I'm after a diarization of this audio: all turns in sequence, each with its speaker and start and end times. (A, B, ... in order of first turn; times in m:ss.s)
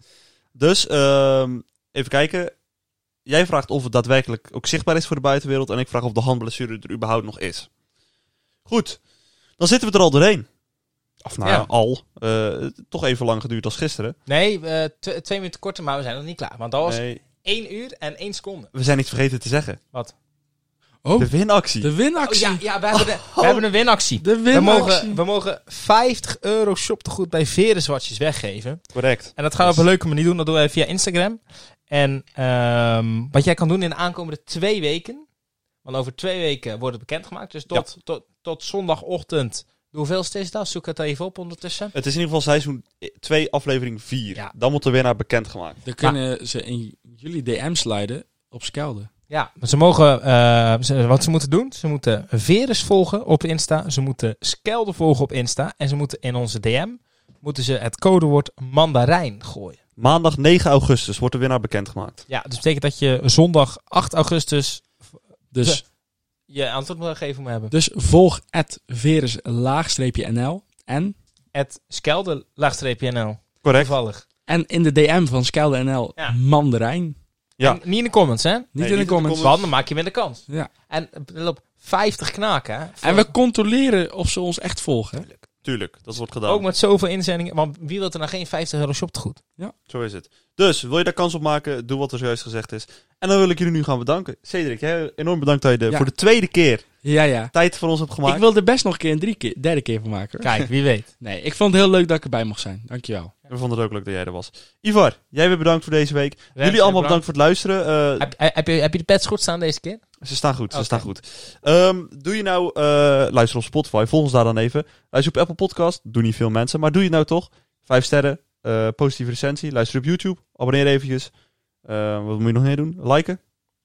0:00.5-0:02.5 A
0:03.2-0:07.7 A
0:08.7-0:09.0 A
0:09.6-0:10.5 A
0:11.2-0:14.2 A
0:14.3-0:18.7 B
0:16.8-0:17.2 A
0:18.7-0:19.8 A
0:21.0-0:22.6 C
0:21.2-0:21.9 A
0:22.2-0:28.8 B
0:22.9-0:23.6 A
0:24.2-0:25.2 C
0:28.9-0:29.8 A
0:29.3-0:35.2 B
0:35.8-0:41.9 B
0:41.9-0:45.8 A
0:45.8-0:49.1 C
0:49.3-0:59.8 B
1:00.0-1:02.2 A
1:02.3-1:05.8 B
1:05.5-1:05.8 C
1:06.5-1:07.7 B
1:07.7-1:11.1 C
1:11.5-1:14.2 B
1:13.6-1:13.9 A
1:14.5-1:17.2 C
1:17.6-1:18.7 B
1:18.7-1:19.5 C
1:18.8-1:19.6 A
1:19.4-1:23.3 B
1:23.0-1:25.3 C
1:25.6-1:26.6 A
1:26.4-1:29.4 B
1:29.9-1:38.4 A
1:37.0-1:37.5 C
1:38.2-1:40.7 C
1:40.4-1:41.1 B
1:41.2-1:43.3 C
1:43.5-1:48.3 A
1:46.6-1:47.2 B
1:48.2-1:50.0 B
1:50.2-2:01.3 A
1:50.7-1:51.1 B
2:01.8-2:03.4 A